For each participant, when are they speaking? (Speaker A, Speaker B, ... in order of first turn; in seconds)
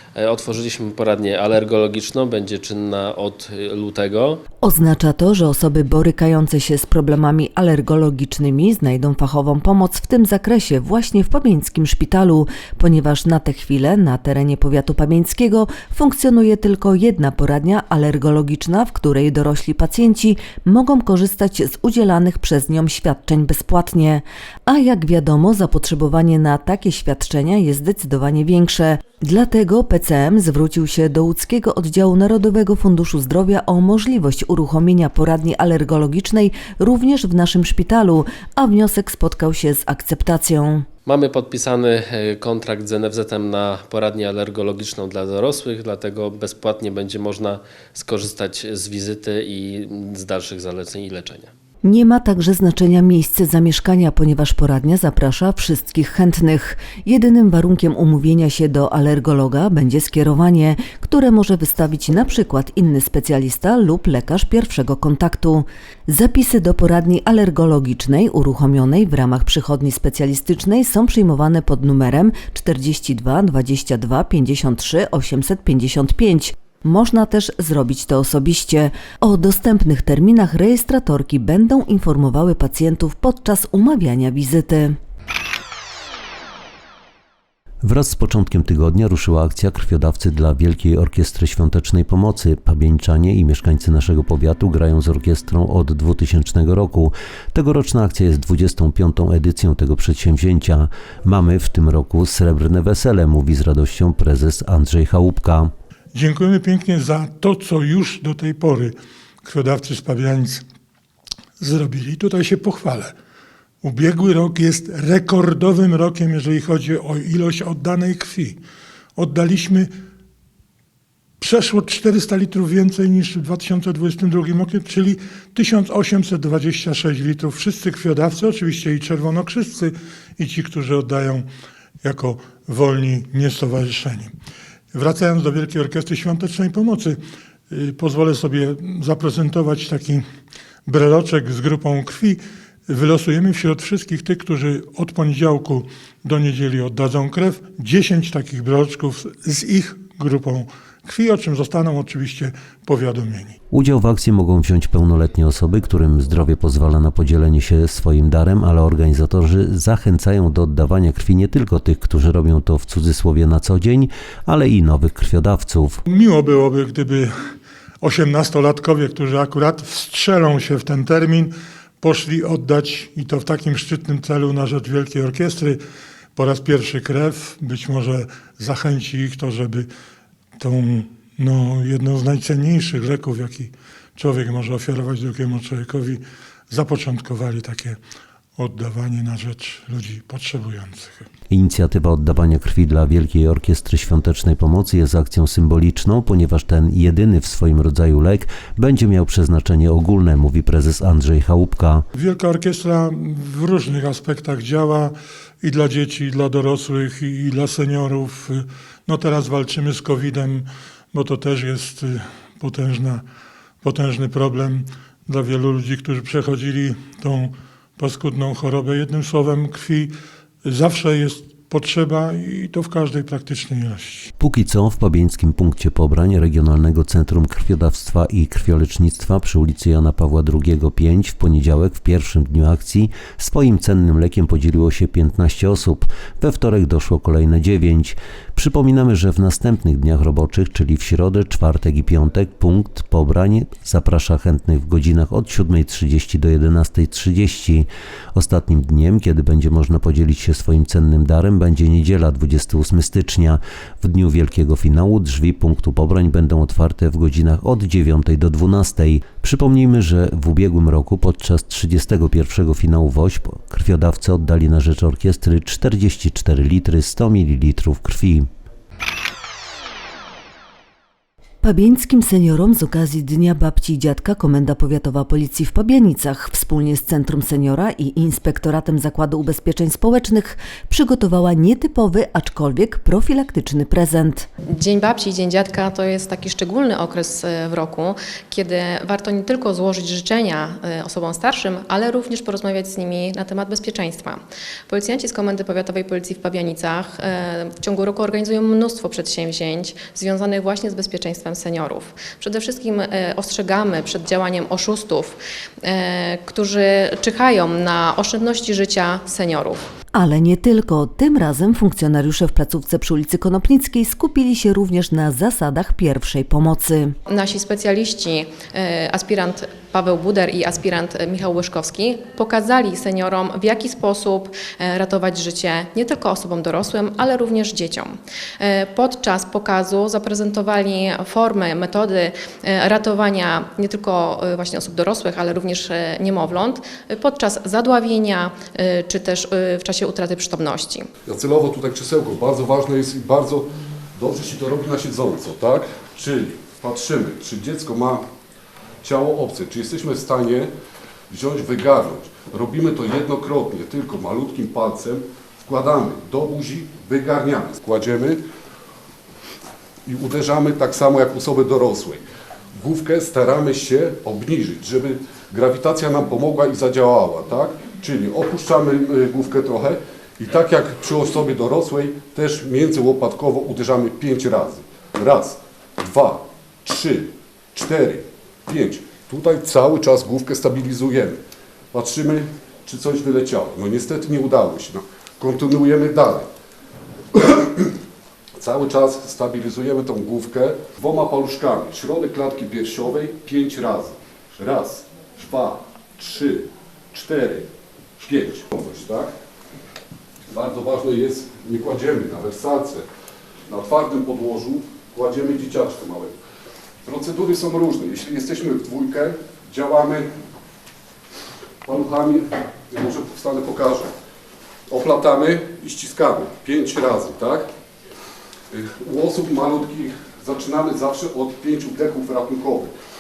Speaker A: 0.1-4.4, 41.1-51.5
Speaker B: 4.6-40.9, 51.8-85.0, 271.6-284.5, 310.1-317.2
Speaker C: 87.8-105.7, 153.7-166.0, 191.5-202.1, 224.4-268.5
Speaker D: 106.1-110.6, 111.6-113.1, 113.8-118.6, 119.2-119.9, 121.4-131.5, 132.0-134.3, 134.9-140.2, 140.9-153.6, 166.1-167.3, 168.0-175.8, 176.4-179.9, 180.6-188.0, 188.6-191.3, 202.2-213.2, 213.8-220.1, 220.7-224.3
Speaker E: 284.7-309.8, 317.3-341.1
Speaker F: 341.3-348.3, 349.0-350.7, 351.3-358.4, 360.1-362.2, 362.8-381.4, 381.9-386.5, 387.3-387.9, 388.6-399.3, 400.5-403.1, 403.7-406.3, 407.0-410.3, 411.9-414.1, 414.9-417.7, 418.7-422.9